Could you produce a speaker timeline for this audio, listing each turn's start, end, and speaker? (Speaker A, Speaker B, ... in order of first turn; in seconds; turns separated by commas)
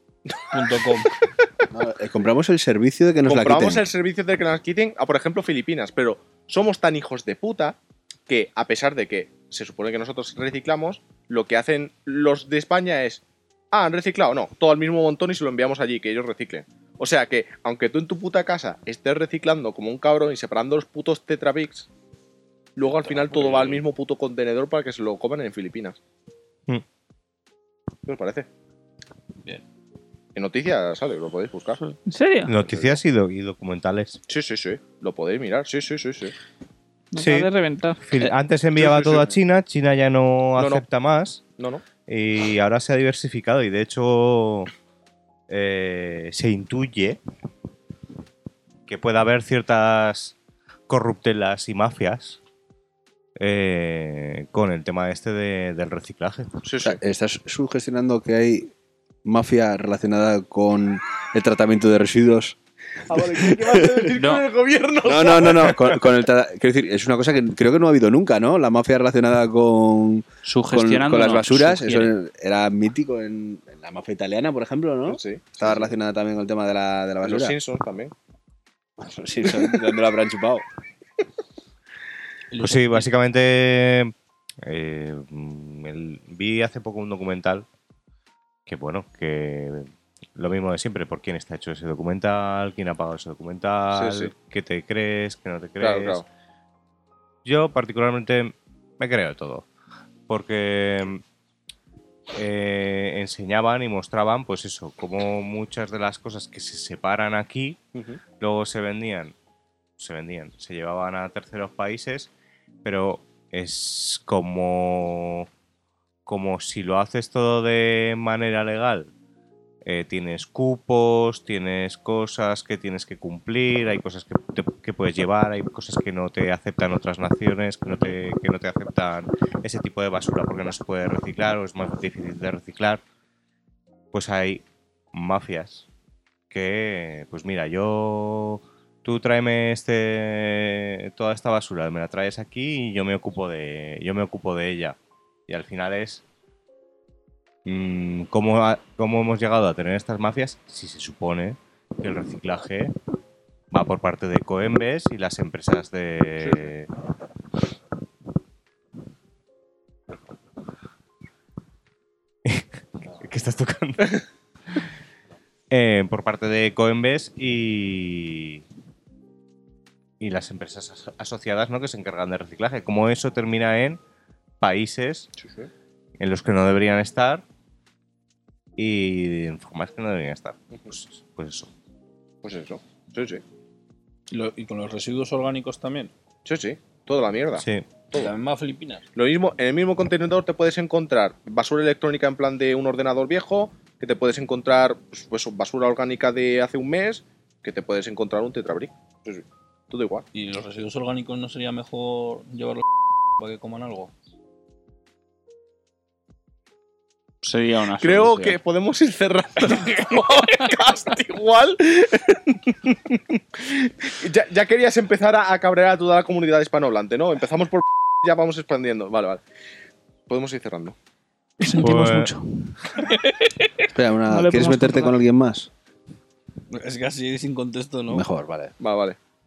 Speaker A: 0.3-1.1, Speaker B: 0.5-1.1, Speaker C: 1.7-3.9, Speaker A: 3.2-21.9, Speaker A: 22.8-25.9, Speaker B: 23.0-23.9, Speaker A: 28.1-28.5, Speaker A: 30.3-31.9, Speaker D: 32.1-32.5, Speaker E: 32.5-34.2, Speaker A: 32.6-33.0, Speaker A: 34.3-36.3, Speaker D: 37.1-38.0, Speaker E: 37.2-37.5, Speaker E: 38.0-41.4, Speaker A: 38.8-39.4, Speaker A: 40.6-40.8, Speaker A: 41.6-41.8, Speaker E: 42.1-44.7, Speaker E: 45.5-47.2, Speaker E: 48.9-50.4, Speaker E: 50.9-52.4, Speaker E: 53.4-56.5, Speaker A: 56.6-57.0, Speaker C: 56.8-58.7, Speaker C: 59.2-62.5, Speaker A: 63.1-66.0, Speaker C: 63.3-64.1, Speaker F: 64.1-64.4, Speaker C: 65.0-77.5, Speaker F: 70.4-72.1, Speaker A: 75.1-76.0, Speaker A: 77.2-78.1, Speaker C: 79.0-80.6, Speaker B: 82.5-83.1, Speaker E: 82.6-87.7, Speaker E: 88.7-96.2, Speaker A: 93.9-94.3, Speaker A: 95.8-96.2, Speaker E: 97.4-99.7, Speaker E: 100.3-101.2, Speaker E: 102.3-107.8, Speaker A: 107.9-108.2, Speaker E: 108.4-109.3, Speaker E: 110.0-112.3, Speaker E: 112.8-115.5, Speaker E: 116.2-119.1, Speaker E: 119.8-133.0, Speaker E: 134.1-135.9, Speaker E: 136.5-146.2, Speaker E: 147.6-152.9, Speaker E: 153.7-156.9, Speaker A: 156.4-156.7, Speaker E: 162.4-164.2, Speaker E: 165.7-168.6, Speaker E: 170.2-174.0, Speaker E: 174.6-175.3, Speaker A: 175.4-175.7, Speaker E: 176.2-177.4, Speaker E: 178.8-181.7, Speaker A: 182.4-183.4, Speaker B: 184.3-186.1, Speaker A: 186.4-188.3, Speaker E: 187.6-187.9, Speaker B: 188.1-189.0, Speaker A: 189.1-200.2, Speaker B: 200.3-204.1, Speaker F: 207.4-208.6, Speaker A: 208.0-219.4, Speaker A: 220.3-220.9, Speaker D: 221.6-222.8, Speaker E: 221.7-222.3, Speaker B: 222.9-223.9, Speaker C: 223.9-225.7, Speaker D: 224.3-225.2, Speaker B: 226.7-228.2, Speaker C: 228.1-228.7, Speaker A: 228.8-229.2